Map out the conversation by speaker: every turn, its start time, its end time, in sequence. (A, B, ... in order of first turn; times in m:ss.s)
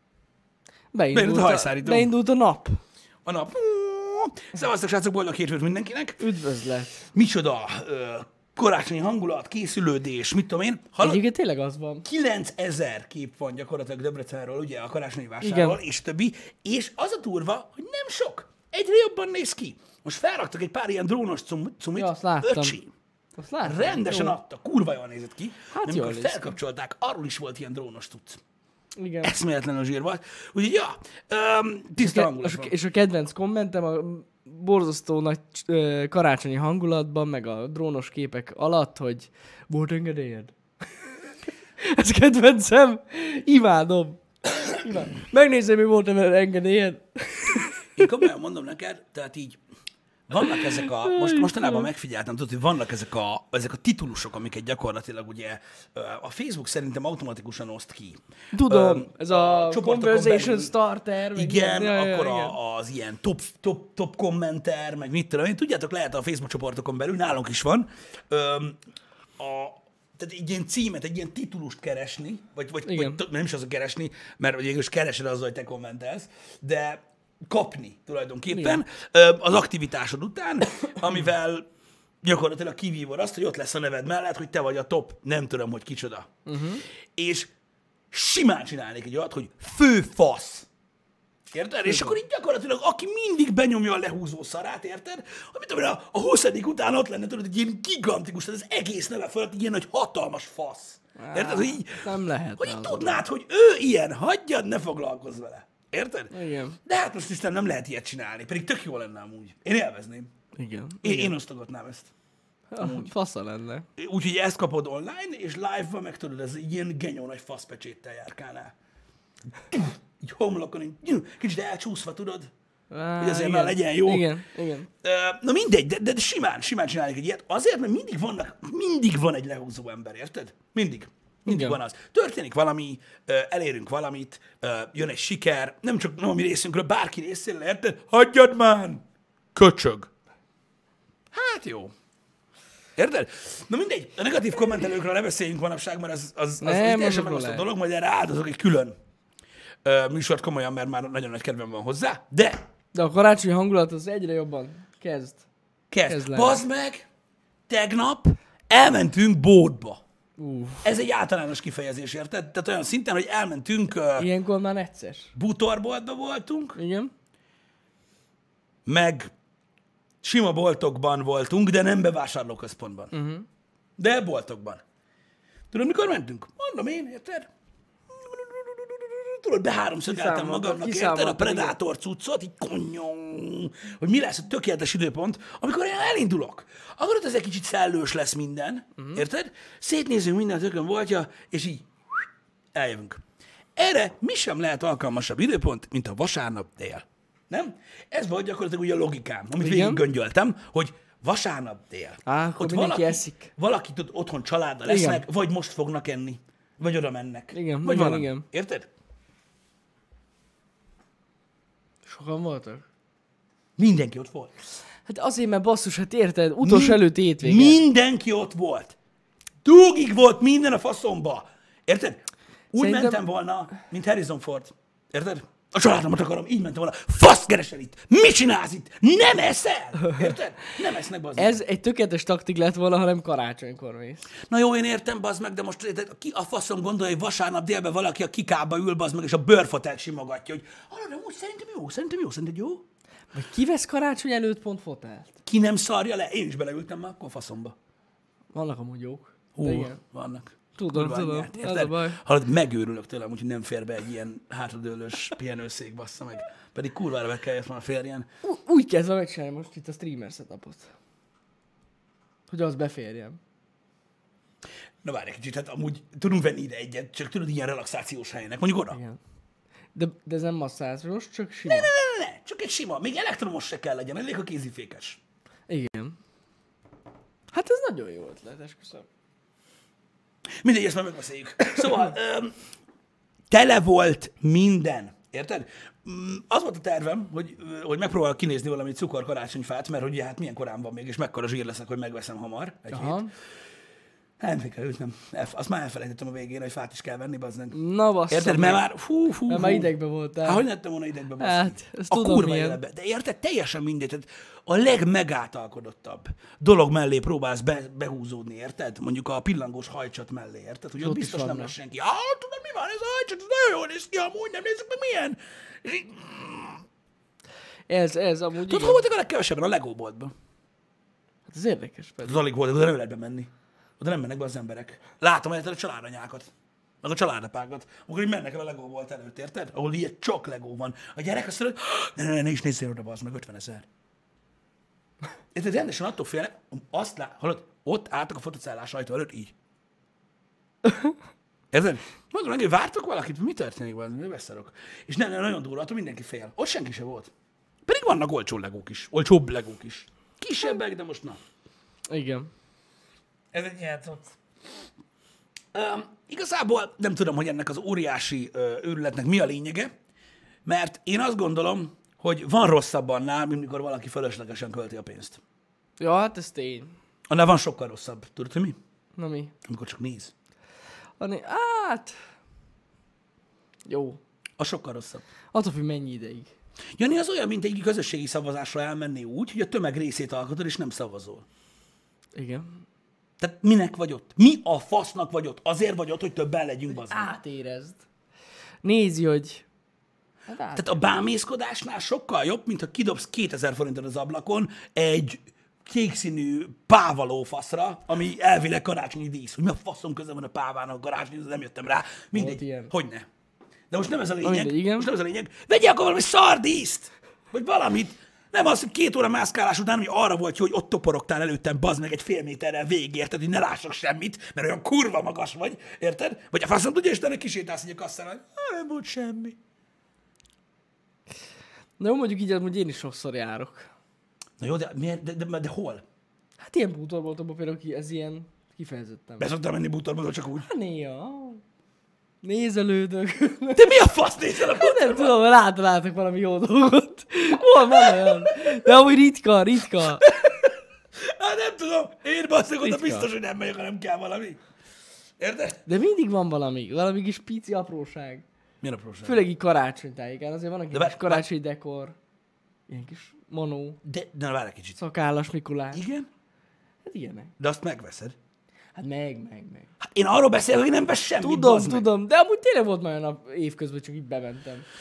0:00.9-0:02.8 A
0:01.1-0:02.1 B
0:03.2-0:06.2 B
0:06.2-0:07.0 A
0:07.1-0:11.2 B
0:11.0-0:12.0 A
0:12.0-0:22.9 B
0:15.4-0:15.8 A
0:22.0-0:22.8 A
0:23.4-0:24.4 A
0:23.6-0:28.4 B
0:25.7-0:26.6 A
0:29.0-0:29.3 A
0:29.2-0:32.7 B
0:32.0-0:40.5 A
0:41.8-0:48.1 A
0:47.9-0:49.6 B
0:50.3-1:00.7 B
0:50.4-0:51.9 A
0:58.5-1:02.6 A
1:01.3-1:08.8 B
1:09.4-1:21.7 B
1:12.8-1:13.2 A
1:18.5-1:18.8 A
1:22.2-1:26.3 B
1:26.5-1:26.8 A
1:27.2-1:27.5 B
1:28.1-1:30.7 B
1:31.5-1:46.3 B
1:31.8-1:32.2 A
1:41.2-1:43.2 A
1:46.3-1:46.8 A
1:46.8-1:50.3 B
1:50.5-1:51.3 A
1:51.0-1:52.1 B
1:52.7-1:53.9 A
1:52.8-1:53.0 B
1:54.0-1:58.7 B
1:59.7-2:02.5 B
2:02.9-2:04.9 A
2:03.2-2:04.3 B
2:05.0-2:19.0 B
2:11.5-2:11.8 A
2:19.6-2:20.1 B
2:21.3-2:21.9 B
2:23.0-2:29.0 B
2:26.6-2:27.7 A
2:29.8-2:32.6 B
2:32.9-2:35.4 A
2:35.9-2:37.1 B
2:36.1-2:36.6 A
2:37.7-2:40.0 B
2:40.4-2:40.8 A
2:40.8-2:44.3 B
2:44.2-2:45.3 A
2:45.4-2:46.8 B
2:46.8-2:47.1 A
2:48.9-2:49.3 B
2:50.2-2:53.1 B
2:53.1-2:53.5 A
2:54.0-2:54.8 B
2:55.7-2:57.5 B
2:58.1-3:13.2 B
3:00.1-3:01.8 A
3:13.8-3:28.9 B
3:19.6-3:20.0 A
3:22.3-3:23.5 A
3:24.9-3:25.2 A
3:27.5-3:28.4 A
3:32.0-3:32.9 A
3:33.8-3:34.5 B
3:35.0-3:37.8 A
3:36.6-3:39.0 B
3:39.6-3:42.2 B
3:42.7-3:51.6 B
3:42.8-3:43.2 A
3:50.0-3:50.4 A
3:51.4-3:54.3 A
3:54.5-4:02.8 B
4:03.3-4:05.4 A
4:05.4-4:07.7 B
4:08.5-4:10.0 A
4:09.6-4:18.3 B
4:10.8-4:12.2 A
4:18.4-4:20.9 A
4:22.5-4:23.4 A
4:25.0-4:29.0 B
4:28.9-4:29.2 A
4:29.9-4:31.9 A
4:31.6-4:35.2 B
4:35.7-4:36.2 A
4:37.5-4:39.1 A
4:40.6-4:42.5 B
4:43.5-4:53.2 B
4:52.9-4:53.3 A
4:54.4-4:57.8 B
4:57.7-4:58.8 A
4:58.3-4:59.9 B
4:59.5-5:00.6 A
5:00.4-5:16.8 B
5:01.4-5:02.8 A
5:11.0-5:11.7 A
5:17.9-5:19.0 A
5:18.7-5:20.3 B
5:21.5-5:22.4 A
5:22.2-5:23.5 B
5:24.0-5:26.5 B
5:27.0-5:33.9 B
5:35.5-5:39.5 B
5:40.9-5:41.1 A
5:41.7-5:47.3 B
5:47.9-5:51.4 B
5:52.1-5:52.5 A
5:53.5-5:54.4 B
5:55.7-5:59.9 B
6:00.7-6:05.4 B
6:06.0-6:06.9 A
6:07.3-6:08.8 B
6:09.2-6:09.5 A
6:09.6-6:10.3 B
6:11.2-6:12.2 A
6:13.9-6:14.2 A
6:14.6-6:15.2 B
6:15.5-6:16.5 A
6:17.0-6:21.4 B
6:22.4-6:22.7 A
6:23.4-6:27.4 B
6:26.9-6:28.0 A
6:28.8-6:29.7 A
6:30.5-6:31.1 A
6:30.8-6:43.3 B
6:42.3-6:42.9 A
6:43.9-6:59.6 B
6:44.4-6:45.1 A
7:02.0-7:03.9 A
7:04.6-7:06.0 B
7:06.6-7:09.5 A
7:09.4-7:10.7 B
7:10.6-7:11.6 A
7:12.4-7:14.0 A
7:13.8-7:15.4 B
7:14.5-7:20.2 A
7:17.9-7:18.7 B
7:20.3-7:24.6 B
7:22.8-7:23.3 A
7:25.4-7:25.8 B
7:25.9-7:28.5 A
7:28.8-7:29.4 B
7:29.2-7:32.2 A
7:30.9-7:31.4 B
7:32.9-7:34.0 A
7:34.0-7:35.0 B
7:35.0-7:36.0 A
7:35.9-7:36.3 B
7:37.0-7:37.5 A
7:37.6-7:38.4 B
7:39.0-7:39.9 A
7:40.0-7:42.1 B
7:41.4-7:44.9 A